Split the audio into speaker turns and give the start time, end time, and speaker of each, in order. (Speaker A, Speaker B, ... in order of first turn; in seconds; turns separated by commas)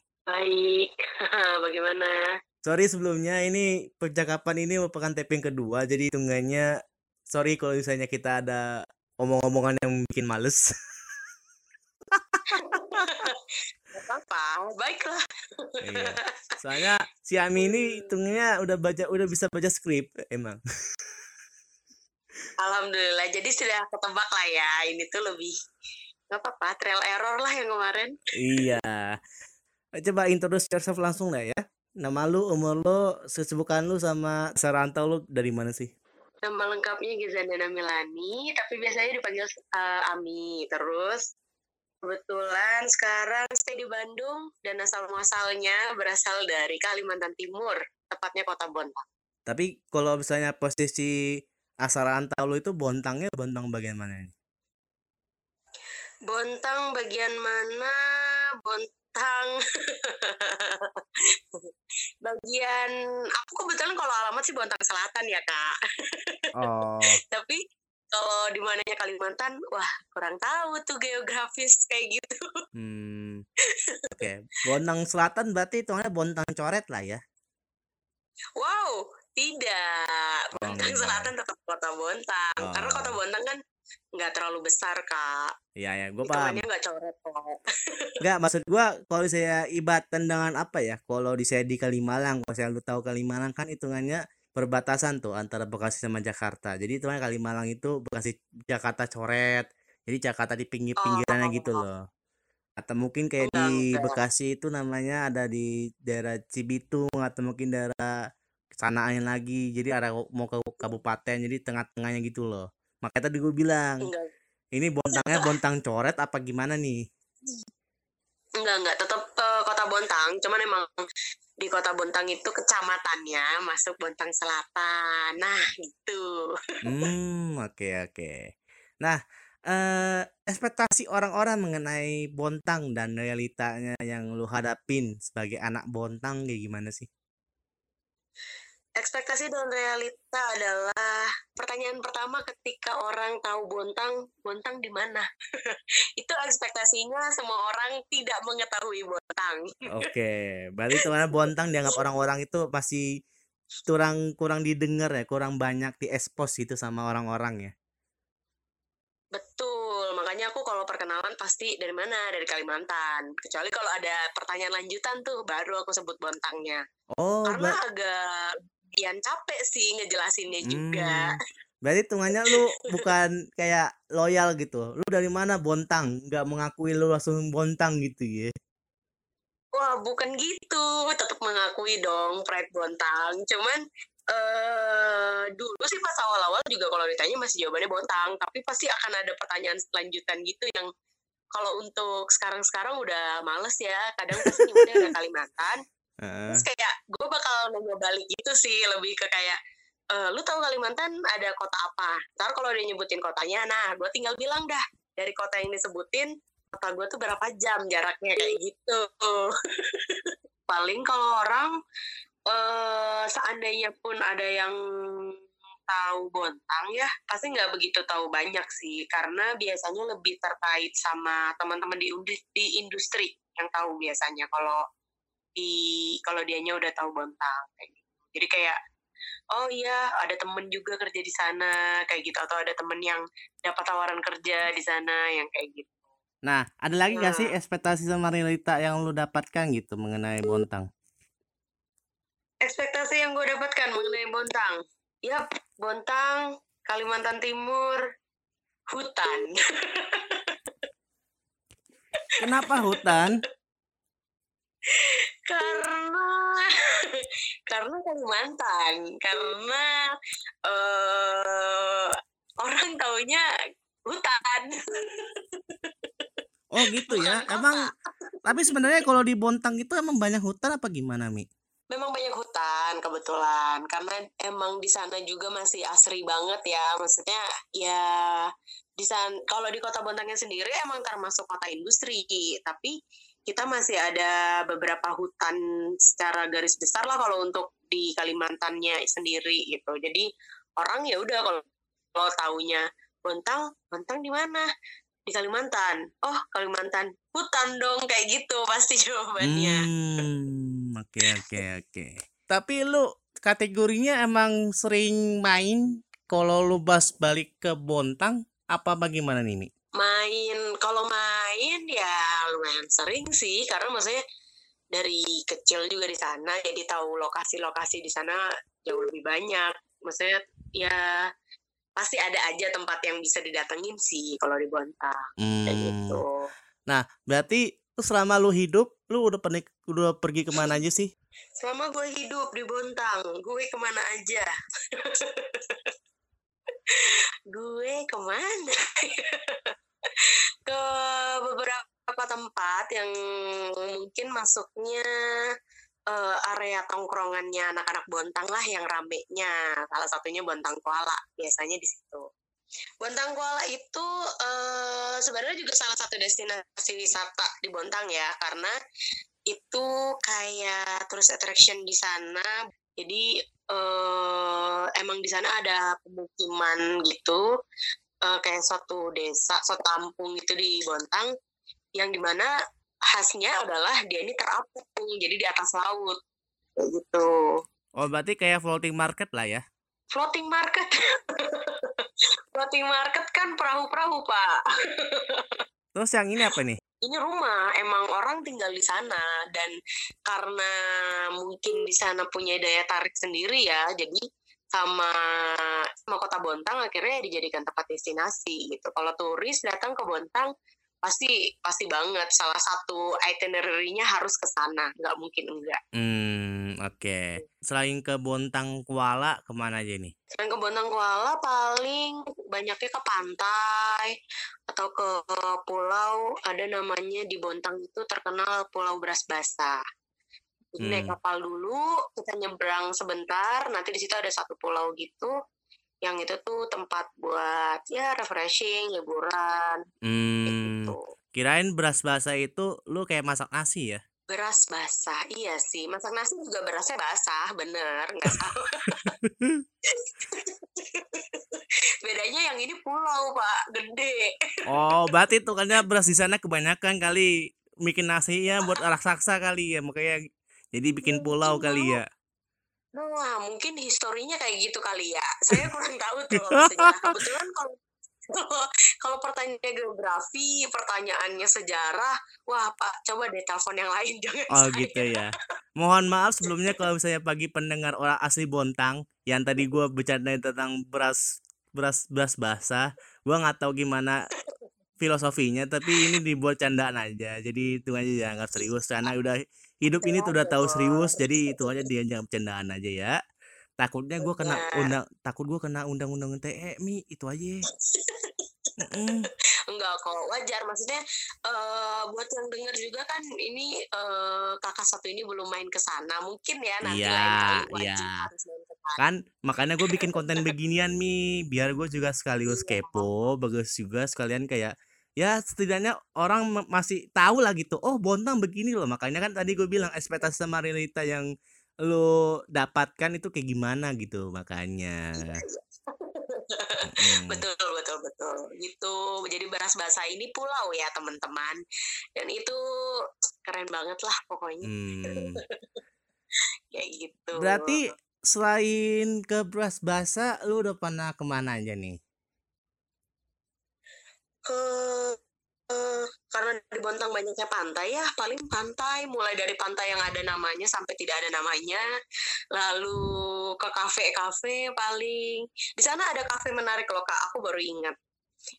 Speaker A: 0.3-2.2, Speaker B: 2.6-6.7, Speaker B: 7.3-8.7, Speaker B: 9.2-10.7, Speaker B: 12.1-13.0, Speaker A: 12.5-13.4, Speaker A: 13.9-16.5, Speaker B: 15.8-20.6, Speaker A: 17.6-18.1, Speaker A: 22.6-25.5, Speaker A: 26.3-28.1, Speaker B: 28.4-29.1, Speaker B: 30.0-35.9, Speaker A: 36.4-41.2, Speaker A: 42.0-49.0, Speaker B: 49.5-51.1, Speaker B: 51.8-54.3, Speaker A: 56.3-61.0, Speaker A: 62.2-65.7, Speaker B: 66.5-67.2, Speaker A: 67.2-67.6, Speaker A: 68.1-72.4, Speaker B: 72.8-73.4, Speaker A: 73.8-74.2, Speaker B: 74.2-77.2, Speaker A: 78.6-83.6, Speaker B: 80.6-81.3, Speaker B: 82.6-83.1, Speaker A: 84.2-85.5, Speaker B: 85.8-86.6, Speaker A: 86.2-88.1, Speaker B: 88.2-102.0, Speaker A: 101.0-101.8, Speaker B: 102.8-108.1, Speaker A: 103.4-104.2, Speaker B: 108.8-114.1, Speaker A: 114.0-114.3, Speaker B: 114.7-117.0, Speaker A: 115.1-115.5, Speaker A: 118.6-120.9, Speaker A: 121.6-126.2, Speaker B: 126.8-128.4, Speaker B: 129.0-137.1, Speaker A: 139.0-149.9, Speaker B: 149.9-153.0, Speaker A: 151.0-152.0, Speaker B: 153.9-157.7, Speaker A: 159.3-166.8, Speaker B: 167.2-167.8, Speaker A: 167.5-171.3, Speaker B: 170.7-178.5, Speaker A: 172.4-173.0, Speaker A: 179.7-183.8, Speaker A: 184.3-190.9, Speaker A: 191.5-195.8, Speaker B: 194.4-195.1, Speaker B: 196.2-196.6, Speaker A: 196.5-199.6, Speaker A: 200.1-211.7, Speaker A: 212.5-215.3, Speaker A: 215.9-224.8, Speaker A: 225.6-228.8, Speaker A: 229.5-236.0, Speaker B: 236.4-240.9, Speaker A: 237.1-237.5, Speaker A: 242.6-248.0, Speaker A: 248.9-250.5, Speaker A: 252.3-253.2, Speaker B: 252.4-253.4, Speaker A: 254.9-260.1, Speaker A: 260.6-263.4, Speaker A: 264.1-266.3, Speaker B: 266.7-267.9, Speaker A: 266.8-269.1, Speaker B: 268.4-271.5, Speaker A: 271.9-278.5, Speaker A: 279.0-282.9, Speaker A: 283.5-290.2, Speaker A: 290.8-291.6, Speaker A: 292.1-294.7, Speaker A: 295.3-299.9, Speaker B: 299.4-309.7, Speaker A: 301.3-301.6, Speaker A: 310.0-314.2, Speaker A: 314.9-321.1, Speaker A: 322.0-326.5, Speaker B: 325.4-326.2, Speaker B: 326.9-331.1, Speaker A: 331.6-335.9, Speaker A: 336.9-345.1, Speaker A: 346.1-352.2, Speaker A: 353.0-358.7, Speaker A: 359.5-367.4, Speaker A: 368.2-371.3, Speaker A: 372.0-372.5, Speaker A: 373.1-376.1, Speaker A: 376.8-377.5, Speaker B: 378.0-379.6, Speaker A: 380.1-385.6, Speaker B: 385.9-386.8, Speaker A: 387.0-389.7, Speaker A: 390.2-390.7, Speaker A: 391.4-400.5, Speaker A: 401.0-405.8, Speaker B: 406.0-410.1, Speaker A: 410.4-414.1, Speaker A: 414.7-419.8, Speaker A: 420.7-425.3, Speaker B: 420.8-421.1, Speaker A: 426.0-429.8, Speaker B: 430.1-434.0, Speaker A: 430.4-431.0, Speaker A: 434.3-439.1, Speaker B: 439.0-439.6, Speaker A: 439.9-444.3, Speaker B: 444.7-447.3, Speaker B: 447.8-450.2, Speaker B: 450.7-452.0, Speaker A: 451.0-452.0, Speaker A: 452.9-457.7, Speaker B: 456.6-457.2, Speaker A: 458.3-465.2, Speaker B: 464.5-471.2, Speaker A: 466.4-466.7, Speaker B: 471.7-474.1, Speaker B: 475.0-483.1, Speaker A: 475.9-476.1, Speaker A: 480.0-481.8, Speaker B: 483.8-487.6, Speaker A: 484.2-484.9, Speaker A: 487.9-489.0, Speaker B: 488.8-489.3, Speaker A: 489.7-499.0, Speaker B: 496.9-498.2, Speaker B: 499.0-511.2, Speaker A: 499.9-500.5, Speaker A: 502.5-503.1, Speaker B: 511.8-515.4, Speaker A: 515.2-521.6, Speaker B: 516.9-517.4, Speaker A: 522.1-522.6, Speaker A: 523.5-525.4, Speaker B: 524.6-525.4, Speaker A: 526.7-527.8, Speaker B: 527.4-532.0, Speaker A: 534.5-535.2, Speaker A: 535.7-541.8, Speaker A: 542.5-543.0, Speaker A: 543.6-548.0